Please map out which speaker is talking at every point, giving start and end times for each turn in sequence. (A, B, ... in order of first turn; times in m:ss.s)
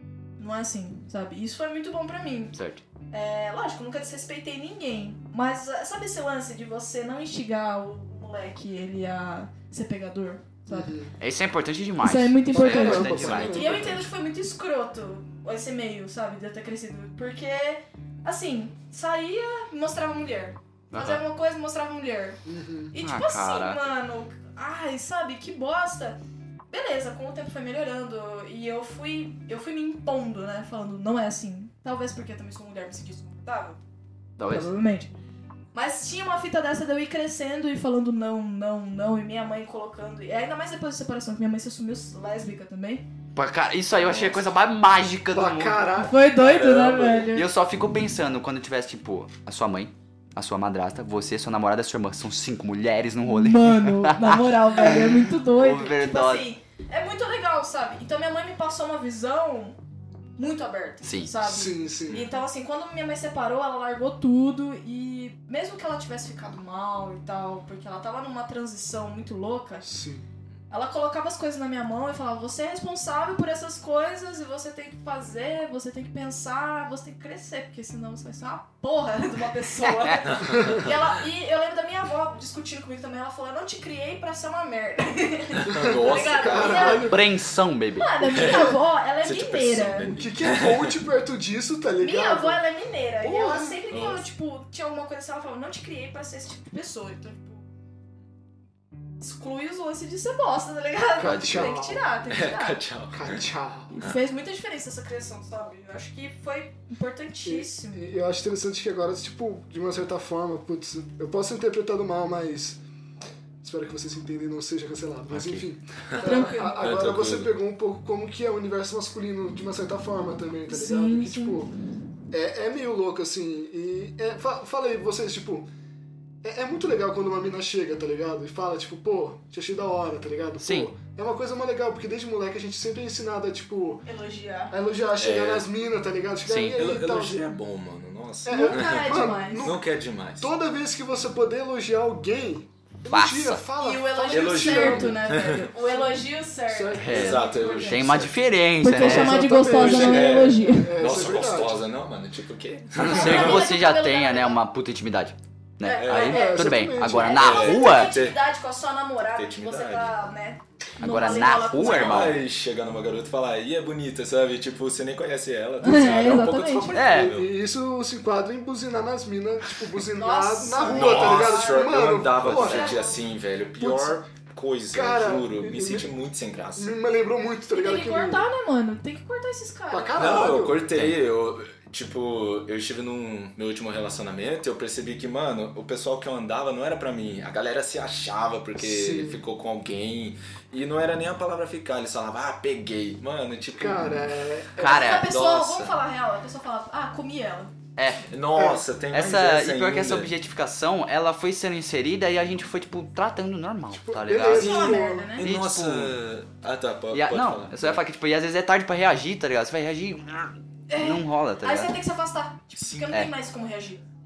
0:00.4-0:02.6 A
0:02.5-0:02.8 B
0:03.1-0:11.0 A
0:10.7-0:11.2 C
0:11.2-0:13.9 B
0:12.0-0:26.2 A
0:12.5-0:14.1 C
0:20.9-0:21.2 B
0:22.4-0:22.9 C
0:23.0-0:23.8 B
0:26.7-0:33.8 A
0:34.4-0:34.7 B
0:34.5-0:35.1 A
0:35.7-0:43.0 A
0:43.4-0:45.9 B
0:44.0-0:44.5 D
0:45.3-0:46.2 C
0:46.0-0:47.5 A
0:46.4-0:47.3 D
0:47.3-0:56.5 B
0:53.2-0:59.8 A
1:00.4-1:09.9 A
1:01.0-1:01.3 B
1:01.4-1:02.3 C
1:09.8-1:10.3 C
1:10.7-1:27.3 A
1:20.0-1:20.2 B
1:20.3-1:21.0 D
1:25.6-1:27.1 D
1:25.7-1:27.3 C
1:26.9-1:28.3 B
1:27.9-1:30.2 A
1:28.3-1:31.0 D
1:30.1-1:32.6 C
1:32.0-1:37.6 A
1:33.2-1:33.8 C
1:33.9-1:34.3 D
1:39.2-1:42.8 A
1:41.2-1:42.1 C
1:41.2-1:41.8 B
1:42.3-1:43.5 D
1:43.1-1:44.0 C
1:43.9-1:48.0 A
1:47.4-1:52.8 C
1:53.6-2:01.7 C
1:55.3-1:55.7 B
1:56.1-1:57.5 D
1:56.2-1:57.0 A
2:00.7-2:01.6 A
2:02.3-2:05.7 C
2:06.4-2:14.1 C
2:10.6-2:10.9 B
2:14.0-2:14.8 A
2:14.7-2:17.4 C
2:15.2-2:15.7 D
2:16.5-2:16.8 B
2:16.7-2:20.5 D
2:18.5-2:19.9 C
2:18.5-2:19.7 A
2:20.4-2:27.5 C
2:23.1-2:23.6 B
2:23.8-2:28.1 A
2:24.3-2:25.7 D
2:27.0-2:29.5 B
2:27.1-2:28.4 D
2:28.8-2:31.0 A
2:28.9-2:31.8 C
2:29.7-2:33.7 D
2:33.0-2:38.2 B
2:33.0-2:34.6 A
2:35.8-2:42.4 A
2:36.0-2:36.4 D
2:36.1-2:37.6 C
2:37.2-2:38.4 D
2:39.3-2:40.2 D
2:41.0-2:42.4 B
2:41.6-2:47.5 D
2:45.8-2:47.1 A
2:46.0-2:53.1 C
2:46.9-2:47.3 B
2:50.2-2:53.2 A
2:50.8-2:57.0 D
2:53.8-2:54.2 C
2:54.9-2:56.1 C
2:56.8-2:58.5 C
2:57.7-3:00.3 A
2:59.9-3:00.9 C
3:00.2-3:14.3 D
3:00.9-3:01.2 B
3:08.8-3:09.4 C
3:13.7-3:15.2 C
3:14.8-3:15.3 B
3:14.8-3:17.7 A
3:15.3-3:16.0 D
3:18.0-3:18.3 B
3:18.3-3:20.3 D
3:18.5-3:18.8 C
3:19.1-3:26.2 B
3:23.9-3:25.3 C
3:24.5-3:25.5 A
3:24.5-3:28.0 D
3:27.1-3:32.0 B
3:30.9-3:34.0 A
3:32.8-3:33.1 D